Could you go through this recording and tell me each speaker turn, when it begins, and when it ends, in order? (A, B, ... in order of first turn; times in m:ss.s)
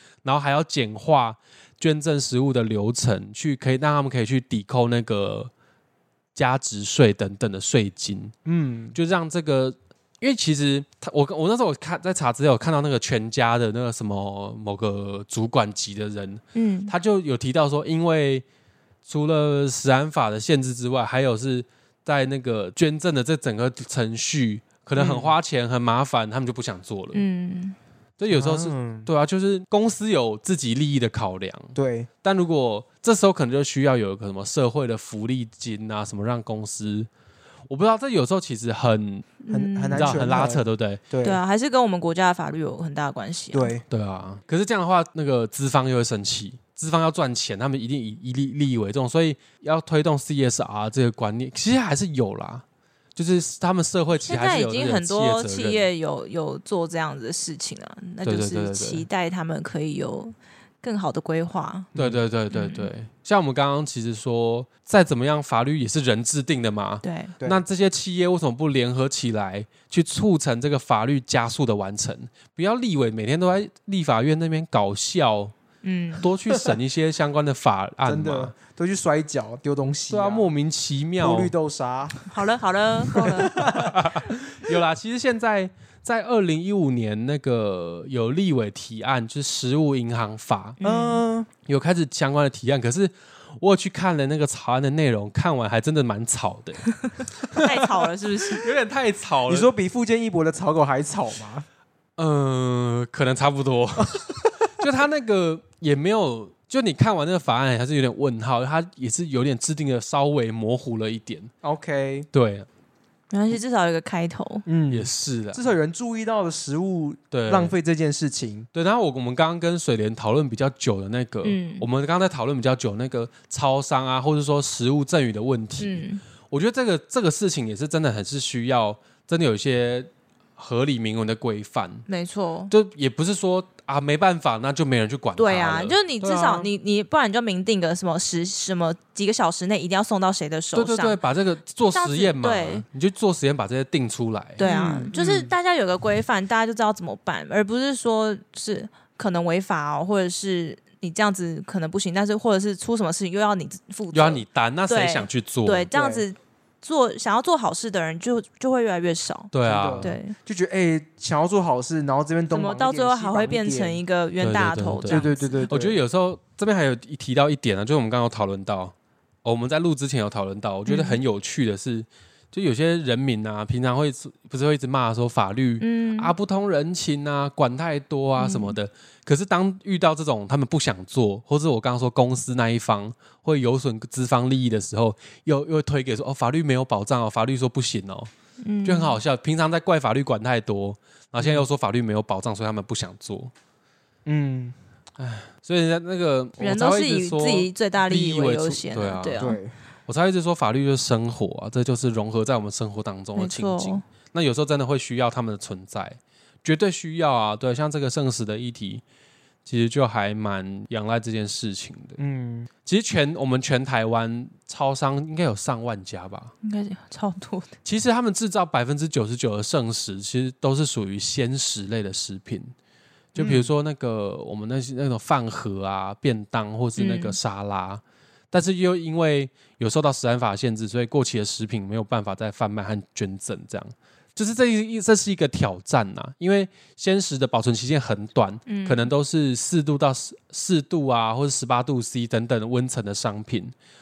0:00.2-0:05.5 A
0:06.4-0:08.3 A
0:08.5-0:09.0 B
0:08.9-0:18.4 A
0:16.6-0:16.9 C
0:19.1-0:27.2 A
0:25.0-0:25.4 B
0:27.1-0:27.8 C
0:28.2-0:37.1 A
0:28.3-0:29.1 B
0:31.8-0:32.1 B
0:37.7-0:39.4 A
0:39.4-0:40.3 C
0:39.5-0:41.4 B
0:40.0-0:41.0 A
0:41.2-0:43.7 C
0:43.5-0:43.8 B
0:43.9-0:52.6 A
0:53.2-0:55.9 A
0:54.2-1:01.9 C
0:58.2-0:59.1 A
1:02.0-1:15.5 A
1:02.5-1:02.9 C
1:07.0-1:07.3 C
1:15.8-1:16.3 C
1:16.2-1:18.5 A
1:18.0-1:20.5 B
1:20.1-1:21.5 A
1:21.2-1:22.3 B
1:22.3-1:23.5 C
1:23.1-1:24.2 B
1:23.2-1:30.8 A
1:30.8-1:31.2 C
1:30.8-1:31.5 B
1:31.7-1:39.7 A
1:37.5-1:38.7 C
1:39.5-1:41.7 B
1:42.2-1:51.5 A
1:44.0-1:44.3 B
1:51.6-1:52.3 B
1:52.3-1:52.7 A
1:53.3-1:54.7 C
1:54.7-1:58.7 B
1:54.9-1:55.6 A
1:57.3-1:57.7 A
1:58.7-2:12.1 A
2:01.4-2:01.9 C
2:05.8-2:06.2 C
2:12.1-2:12.7 C
2:12.7-2:16.7 A
2:15.4-2:21.2 C
2:20.8-2:24.7 A
2:21.9-2:22.8 C
2:24.6-2:39.5 C
2:24.6-2:25.5 B
2:34.1-2:35.9 A
2:35.9-2:36.2 B
2:39.5-2:40.2 A
2:39.6-2:44.0 B
2:40.0-2:40.4 C
2:42.5-2:45.7 C
2:44.4-3:08.3 A
2:45.1-2:46.0 B
2:50.9-2:51.2 C
2:55.8-2:56.3 C
2:58.4-2:58.8 C
3:08.6-3:09.2 C
3:08.8-3:13.5 A
3:11.4-3:11.7 B
3:14.3-3:14.8 B
3:15.2-3:19.4 A
3:16.6-3:19.6 C
3:19.4-3:19.8 B
3:20.1-3:29.0 A
3:23.4-3:24.0 C
3:29.6-3:32.2 A
3:32.2-3:32.7 B
3:32.8-3:36.5 A
3:36.6-3:37.7 C
3:37.8-3:42.7 A
3:43.3-4:03.7 A
3:43.4-3:43.7 B
3:47.0-3:47.4 C
3:58.7-3:59.1 C